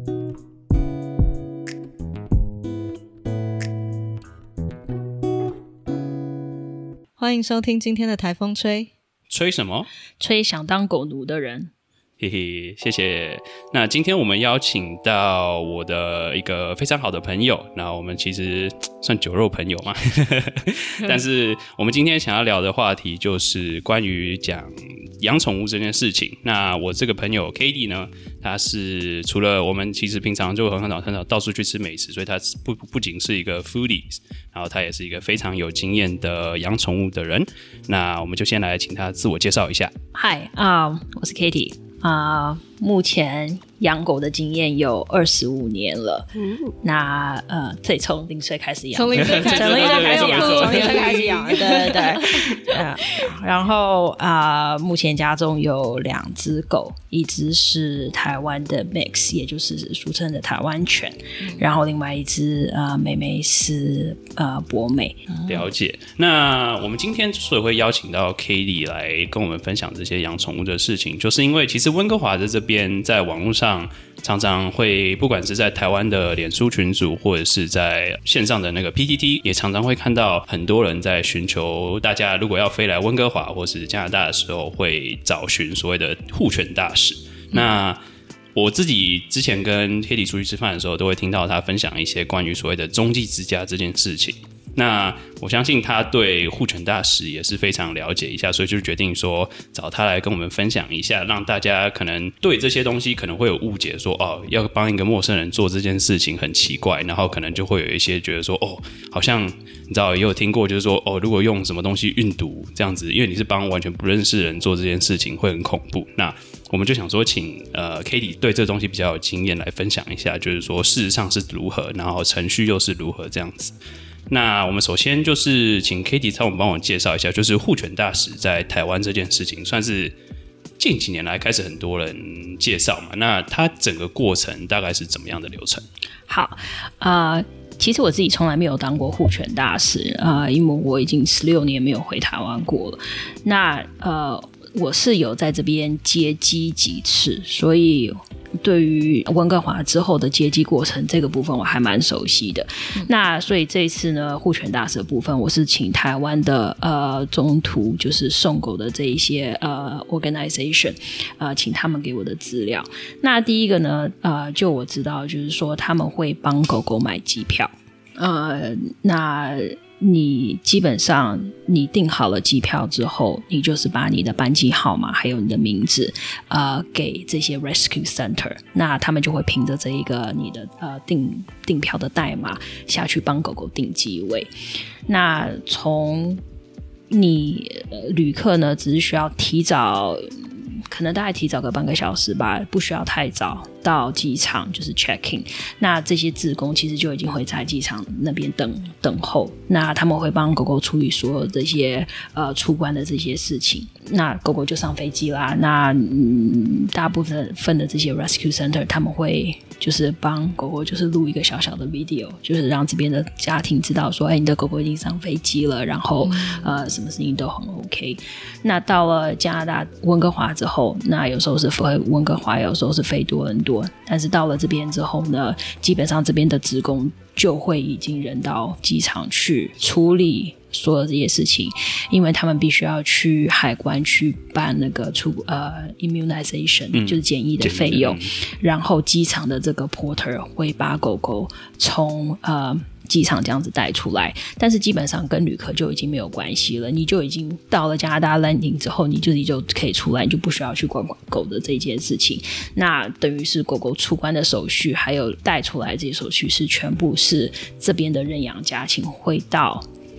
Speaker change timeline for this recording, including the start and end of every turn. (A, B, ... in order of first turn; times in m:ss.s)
0:07.2-0:08.9 A
0:09.3-0:09.9 B
0:10.2-0:11.7 C
0:12.2-0:39.9 B
0:40.1-0:46.3 C
0:46.4-0:46.8 A
0:46.8-1:05.3 C
0:48.9-0:53.2 A
0:49.2-0:51.3 B
1:01.4-1:01.7 A
1:05.3-1:05.7 A
1:05.5-1:28.0 B
1:28.6-2:03.8 B
2:04.3-2:10.1 B
2:10.8-2:15.8 B
2:16.3-3:04.5 C
3:05.1-3:06.4 C
3:07.1-4:19.9 C
3:36.2-3:36.8 A
3:56.9-3:58.3 B